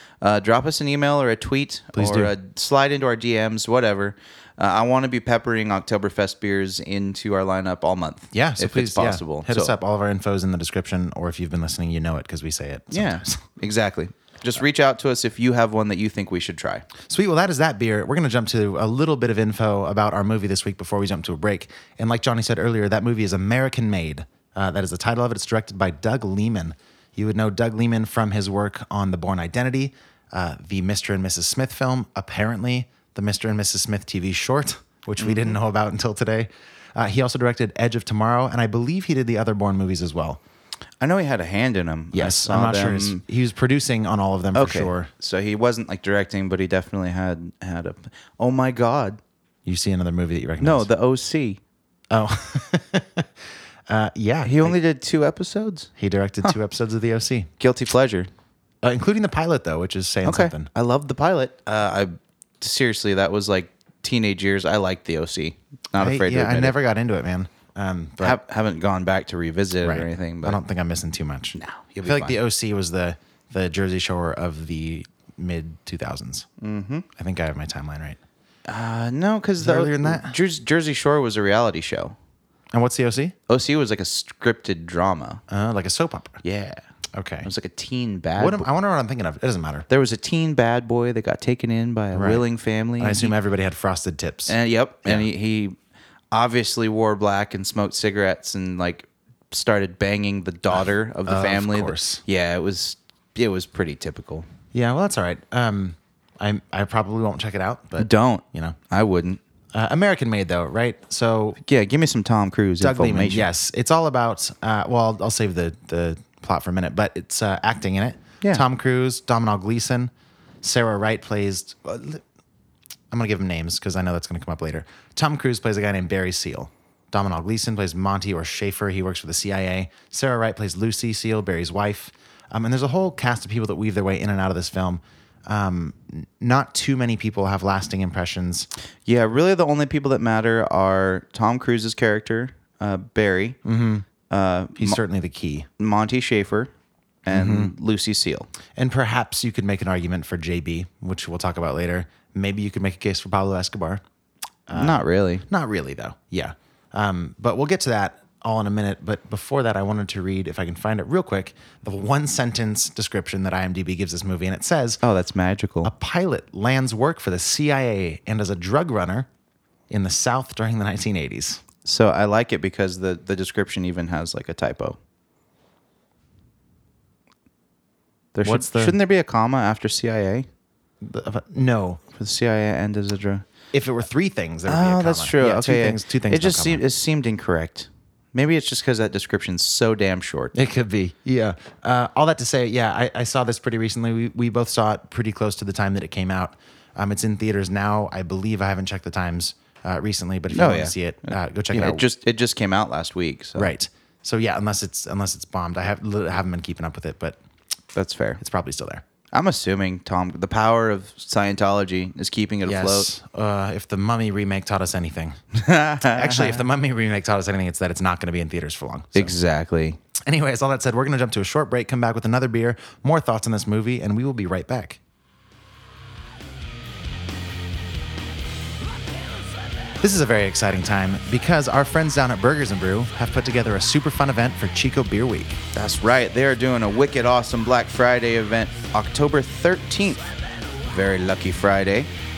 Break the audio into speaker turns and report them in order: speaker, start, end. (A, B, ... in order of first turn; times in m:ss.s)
0:00.2-0:09.7 A
0:01.9-0:02.3 B
0:08.3-0:13.4 B
0:12.9-0:16.9 A
0:17.0-0:40.4 B
0:35.2-0:35.6 A
0:41.0-0:43.2 A
0:42.1-0:45.1 B
0:44.5-0:49.2 A
0:49.6-0:50.9 B
0:50.6-0:51.6 A
0:52.1-0:53.2 B
0:53.9-0:54.8 B
0:54.4-0:55.9 A
0:56.0-0:57.5 B
0:57.6-0:58.3 A
0:58.8-1:00.7 B
1:00.2-1:06.8 A
1:06.0-1:08.4 B
1:08.2-1:10.6 A
1:09.8-1:16.4 B
1:11.5-1:12.4 A
1:16.6-1:17.0 A
1:17.2-1:18.2 B
1:18.6-1:22.1 A
1:19.6-1:20.4 B
1:22.7-1:23.3 B
1:23.5-1:25.4 A
1:25.5-1:26.4 B
1:26.4-1:26.8 A
1:27.1-1:27.5 B
1:27.4-1:28.7 A
1:28.4-1:29.9 B
1:29.9-1:33.3 A
1:32.1-1:32.4 B
1:33.0-1:35.3 B
1:34.5-1:35.8 A
1:36.3-1:44.5 A
1:41.2-1:42.2 B
1:44.7-1:48.8 B
1:48.0-1:49.4 A
1:49.7-1:51.6 B
1:51.6-1:53.5 A
1:52.8-2:00.1 B
2:00.6-2:02.2 B
2:03.1-2:18.7 B
2:19.0-2:23.6 A
2:23.6-2:24.0 B
2:24.3-2:25.0 A
2:24.8-2:25.7 B
2:25.8-2:26.7 A
2:27.2-2:28.5 A
2:27.3-2:27.7 B
2:28.7-2:34.0 B
2:34.7-2:45.0 B
2:34.7-2:35.4 A
2:45.0-2:45.9 A
2:45.8-2:49.3 B
2:49.9-2:51.6 B
2:51.8-2:55.0 A
2:58.3-3:00.5 A
2:58.4-2:59.0 B
3:01.0-3:02.0 B
3:02.1-3:03.4 A
3:03.7-3:06.8 B
3:04.7-3:10.5 A
3:10.5-3:22.0 B
3:20.5-3:23.7 A
3:23.5-3:27.4 B
3:27.9-3:28.4 A
3:28.4-3:29.0 B
3:29.3-3:33.1 A
3:32.6-3:35.4 B
3:35.5-3:36.6 A
3:36.0-3:39.3 B
3:39.1-3:40.0 A
3:40.2-3:45.0 B
3:50.0-3:55.6 B
3:55.7-4:00.3 A
4:00.8-4:02.1 A